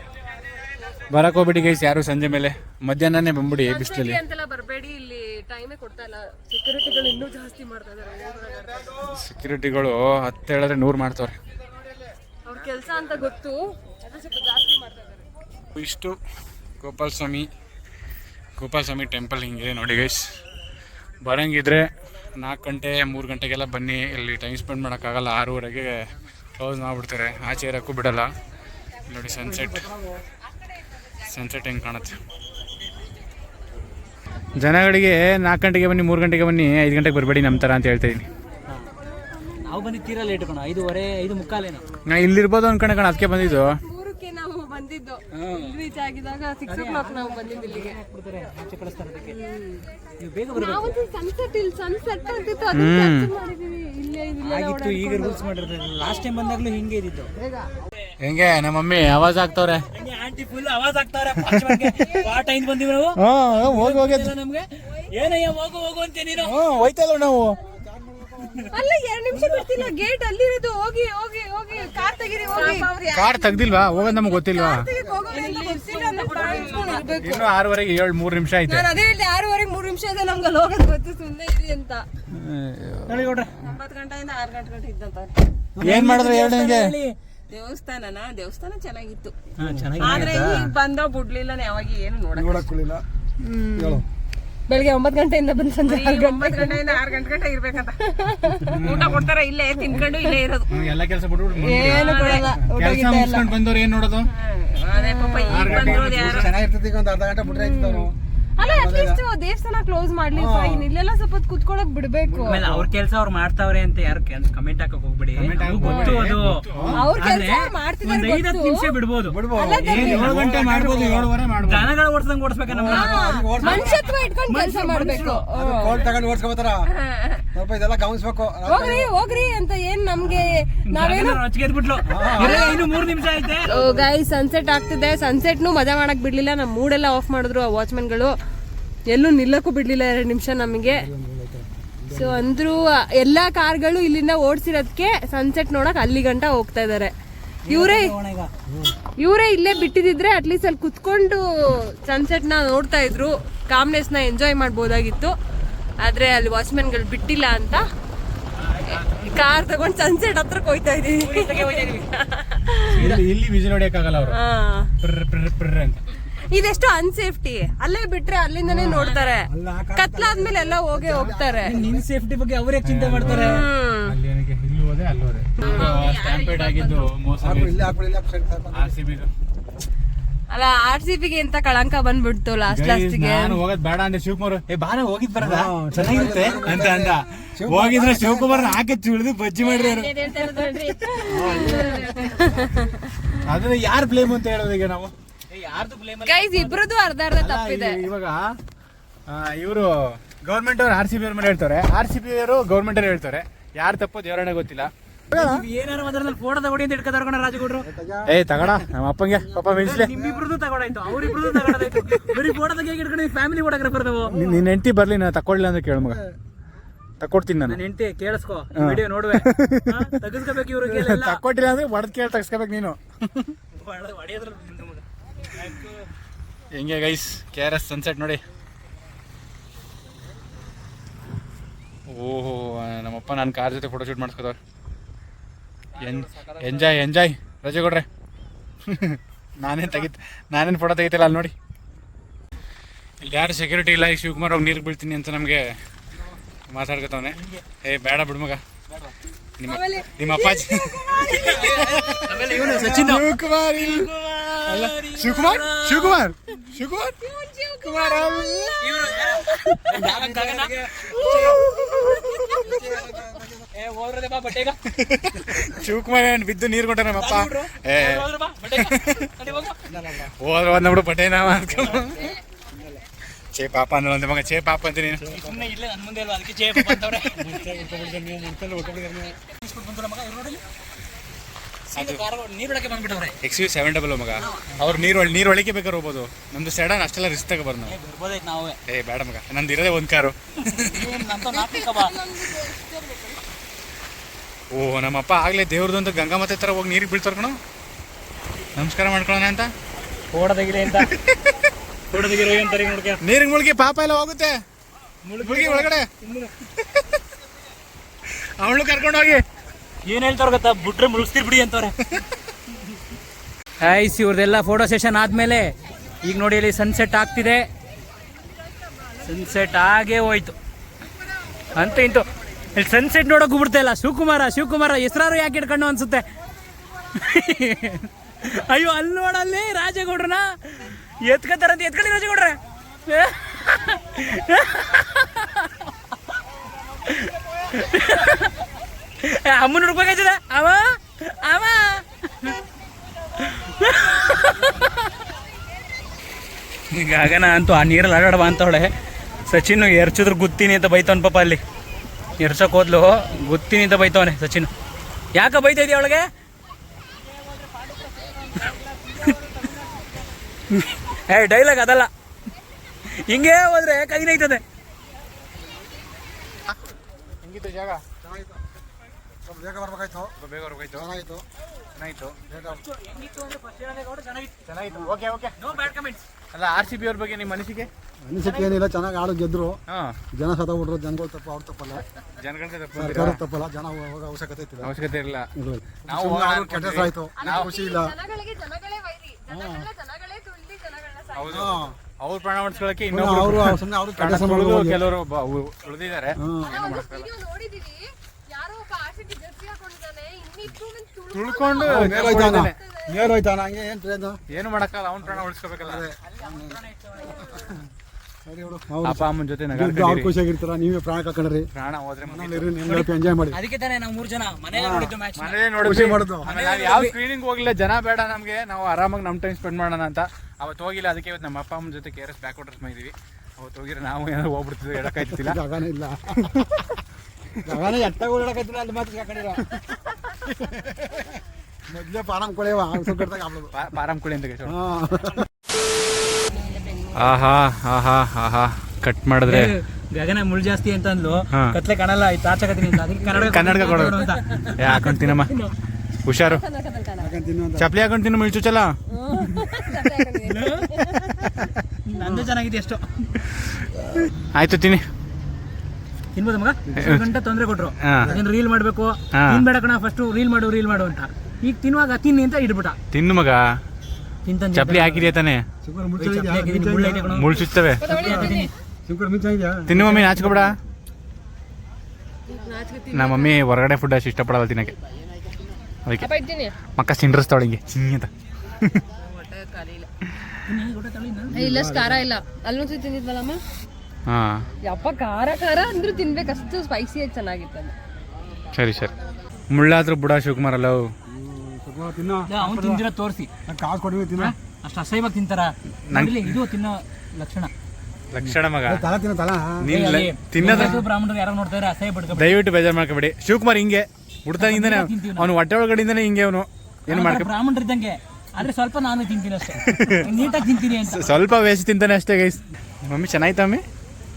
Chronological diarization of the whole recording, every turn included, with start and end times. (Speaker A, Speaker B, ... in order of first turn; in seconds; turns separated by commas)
Speaker A: 1.1-4.2, Speaker B: 3.6-9.0, Speaker A: 9.0-11.4, Speaker B: 12.4-15.2, Speaker A: 15.7-16.2, Speaker A: 16.8-17.5, Speaker A: 18.6-20.3, Speaker A: 21.2-28.3, Speaker A: 29.1-29.9, Speaker C: 29.4-30.2, Speaker A: 31.2-32.2, Speaker A: 34.6-38.2, Speaker D: 39.6-41.8, Speaker A: 42.0-43.7, Speaker B: 43.3-48.0, Speaker D: 45.3-45.8, Speaker D: 46.7-49.4, Speaker B: 49.3-49.9, Speaker D: 50.2-51.0, Speaker B: 50.5-55.4, Speaker A: 52.7-53.3, Speaker D: 54.4-57.3, Speaker A: 58.2-59.9, Speaker D: 59.9-66.5, Speaker A: 61.6-62.2, Speaker A: 63.2-64.3, Speaker A: 66.4-67.6, Speaker C: 67.7-68.7, Speaker B: 68.7-72.9, Speaker D: 69.3-69.9, Speaker E: 72.4-74.2, Speaker A: 73.1-74.9, Speaker B: 74.2-77.5, Speaker C: 74.8-75.6, Speaker E: 75.3-77.5, Speaker A: 77.2-78.9, Speaker B: 78.7-82.0, Speaker A: 82.3-83.2, Speaker D: 83.1-83.5, Speaker E: 83.6-85.4, Speaker C: 85.8-86.1, Speaker A: 85.8-86.9, Speaker D: 85.8-87.2, Speaker E: 86.4-86.8, Speaker E: 87.5-89.3, Speaker D: 89.6-90.7, Speaker C: 89.7-90.1, Speaker E: 90.0-92.7, Speaker A: 90.0-90.7, Speaker C: 92.3-93.0, Speaker B: 93.4-94.0, Speaker C: 93.7-94.0, Speaker B: 94.7-97.0, Speaker E: 95.8-98.0, Speaker B: 98.0-98.9, Speaker A: 98.6-99.3, Speaker E: 98.8-100.8, Speaker B: 99.8-100.4, Speaker A: 100.7-104.3, Speaker B: 101.5-103.5, Speaker E: 101.9-102.5, Speaker E: 104.3-106.5, Speaker B: 104.9-106.0, Speaker A: 105.4-106.5, Speaker C: 106.0-109.2, Speaker B: 107.5-112.6, Speaker C: 110.3-110.9, Speaker C: 112.2-112.9, Speaker D: 112.5-125.4, Speaker A: 115.3-117.0, Speaker B: 115.8-116.3, Speaker B: 116.9-118.9, Speaker C: 119.2-121.3, Speaker B: 119.5-120.3, Speaker A: 119.8-121.9, Speaker C: 122.7-124.0, Speaker B: 122.8-126.1, Speaker C: 125.5-126.9, Speaker E: 127.0-127.4, Speaker C: 127.5-129.1, Speaker B: 128.7-131.4, Speaker C: 130.2-130.7, Speaker D: 130.8-133.7, Speaker C: 132.1-132.8, Speaker B: 132.3-132.9, Speaker B: 133.6-138.3, Speaker C: 133.7-134.1, Speaker B: 139.1-141.1, Speaker C: 140.8-142.5, Speaker B: 142.1-147.1, Speaker D: 147.6-148.5, Speaker B: 147.7-148.2, Speaker C: 148.7-148.9, Speaker B: 149.2-155.3, Speaker B: 156.0-157.8, Speaker A: 158.8-159.3, Speaker B: 158.9-163.2, Speaker D: 161.2-162.0, Speaker A: 162.9-164.4, Speaker B: 164.3-164.9, Speaker A: 165.0-166.0, Speaker B: 166.3-171.8, Speaker C: 168.6-172.0, Speaker D: 171.6-173.7, Speaker A: 172.8-177.9, Speaker B: 173.2-174.2, Speaker B: 175.6-175.9, Speaker E: 175.6-177.1, Speaker C: 177.4-178.9, Speaker A: 178.7-179.3, Speaker B: 180.5-183.6, Speaker A: 182.7-190.1, Speaker C: 185.4-188.8, Speaker D: 186.0-186.4, Speaker B: 189.6-193.0, Speaker C: 191.2-192.0, Speaker E: 191.3-192.7, Speaker A: 193.4-195.1, Speaker D: 195.5-196.8, Speaker B: 196.2-198.0, Speaker A: 197.3-198.6, Speaker A: 199.3-205.6, Speaker D: 205.3-207.9, Speaker C: 207.8-208.4, Speaker A: 208.3-210.1, Speaker C: 209.3-210.4, Speaker D: 209.8-214.4, Speaker C: 214.3-214.6, Speaker A: 214.3-216.2, Speaker C: 216.0-216.3, Speaker A: 217.2-217.8, Speaker D: 217.7-221.4, Speaker A: 218.8-220.0, Speaker A: 220.8-223.5, Speaker D: 223.7-226.0, Speaker A: 226.7-228.4, Speaker A: 232.1-234.6, Speaker A: 236.0-238.1, Speaker D: 236.3-236.9, Speaker A: 238.8-241.5, Speaker A: 243.2-245.8, Speaker A: 246.7-248.6, Speaker D: 247.3-247.6, Speaker A: 249.6-254.1, Speaker B: 249.6-252.6, Speaker D: 251.2-256.3, Speaker A: 254.7-257.2, Speaker B: 257.2-259.8, Speaker A: 257.8-258.8, Speaker D: 258.8-261.6, Speaker C: 259.9-261.0, Speaker B: 261.0-263.2, Speaker C: 262.5-263.7, Speaker D: 263.7-264.8, Speaker A: 264.9-269.3, Speaker D: 267.1-269.8, Speaker C: 269.9-270.3, Speaker A: 270.4-272.3, Speaker D: 271.8-272.3, Speaker C: 272.7-273.0, Speaker A: 273.5-275.2, Speaker D: 275.2-277.8, Speaker C: 275.2-275.6, Speaker A: 276.7-278.6, Speaker C: 277.8-279.4, Speaker D: 279.5-280.6, Speaker D: 281.9-283.4, Speaker A: 281.9-282.2, Speaker A: 283.4-288.0, Speaker D: 284.4-285.3, Speaker D: 287.9-288.8, Speaker A: 288.9-291.0, Speaker D: 290.7-292.2, Speaker B: 291.5-293.4, Speaker A: 294.7-297.6, Speaker A: 298.7-299.7, Speaker D: 300.3-301.1, Speaker A: 300.9-301.6, Speaker D: 302.1-303.2, Speaker A: 303.2-304.6, Speaker D: 305.2-306.5, Speaker A: 305.4-306.1, Speaker A: 308.6-309.4, Speaker D: 310.0-312.0, Speaker D: 313.8-317.7, Speaker D: 319.2-320.6, Speaker D: 321.7-326.3, Speaker D: 327.1-335.7, Speaker D: 337.0-338.5, Speaker D: 339.2-342.6, Speaker D: 343.4-345.0, Speaker D: 346.9-348.9, Speaker D: 349.5-351.6, Speaker D: 352.4-354.7, Speaker D: 355.3-356.3, Speaker D: 358.5-359.7, Speaker D: 360.7-362.1, Speaker D: 363.1-364.6, Speaker A: 367.4-368.0, Speaker C: 368.2-368.6, Speaker C: 369.4-370.4, Speaker A: 370.4-371.1, Speaker C: 370.9-371.4, Speaker A: 371.9-372.4, Speaker C: 372.5-372.8, Speaker D: 372.7-374.5, Speaker A: 374.6-375.8, Speaker D: 375.6-376.2, Speaker A: 376.5-377.9, Speaker C: 378.2-379.8, Speaker D: 378.4-378.8, Speaker A: 379.9-380.2, Speaker C: 380.3-382.0, Speaker A: 382.4-383.4, Speaker C: 382.9-384.9, Speaker A: 384.8-385.5, Speaker C: 385.6-388.1, Speaker A: 386.0-387.7, Speaker B: 387.4-391.8, Speaker C: 389.5-389.9, Speaker A: 391.3-397.3, Speaker C: 391.5-391.9, Speaker C: 393.1-395.0, Speaker C: 396.3-396.9, Speaker B: 396.6-403.3, Speaker A: 401.3-402.8, Speaker C: 401.8-404.4, Speaker A: 404.5-406.1, Speaker C: 405.3-406.8, Speaker D: 406.2-407.6, Speaker B: 407.3-407.7, Speaker C: 407.4-407.8, Speaker C: 408.4-411.7, Speaker A: 409.0-410.3, Speaker A: 411.7-412.7, Speaker C: 412.2-413.6, Speaker D: 412.8-415.6, Speaker C: 414.7-415.1, Speaker A: 415.4-425.6, Speaker C: 415.8-416.5, Speaker D: 416.4-417.1, Speaker C: 425.0-426.6, Speaker C: 427.6-430.0, Speaker C: 430.5-431.2, Speaker C: 431.9-433.7, Speaker A: 433.7-434.8, Speaker C: 434.6-435.5, Speaker B: 436.5-437.5, Speaker A: 437.1-439.7, Speaker D: 439.4-445.7, Speaker A: 441.5-441.8, Speaker A: 443.4-444.2, Speaker A: 444.8-445.5, Speaker A: 446.2-446.6, Speaker B: 446.4-447.3, Speaker C: 447.2-447.9, Speaker A: 447.8-448.9, Speaker B: 449.1-451.4, Speaker D: 450.4-451.5, Speaker D: 452.1-453.3, Speaker C: 452.2-452.5, Speaker A: 454.4-455.0, Speaker D: 456.3-463.0, Speaker A: 457.0-457.2, Speaker A: 458.0-458.3, Speaker A: 459.3-459.6, Speaker A: 463.1-463.6, Speaker D: 464.4-465.3, Speaker A: 464.7-465.6, Speaker C: 465.8-467.3, Speaker D: 466.2-468.7, Speaker A: 467.3-468.1, Speaker B: 468.0-468.7, Speaker C: 468.1-470.7, Speaker A: 469.9-470.8, Speaker B: 472.5-473.6, Speaker A: 473.1-474.9, Speaker B: 476.2-476.7, Speaker A: 476.9-479.0, Speaker B: 479.2-480.1, Speaker D: 480.6-481.5, Speaker C: 481.5-482.2, Speaker B: 481.5-483.6, Speaker A: 484.2-484.6, Speaker B: 484.8-487.9, Speaker A: 488.7-489.1, Speaker A: 489.7-491.1, Speaker C: 491.2-493.0, Speaker D: 492.5-493.5, Speaker C: 493.7-494.5, Speaker D: 494.4-497.7, Speaker A: 496.1-496.6, Speaker A: 498.3-499.0, Speaker C: 498.4-499.9, Speaker A: 499.8-501.0, Speaker D: 499.9-502.6, Speaker C: 500.6-501.0, Speaker A: 502.3-507.5, Speaker D: 504.5-505.5, Speaker D: 507.1-511.4, Speaker A: 509.8-510.3, Speaker A: 511.0-513.8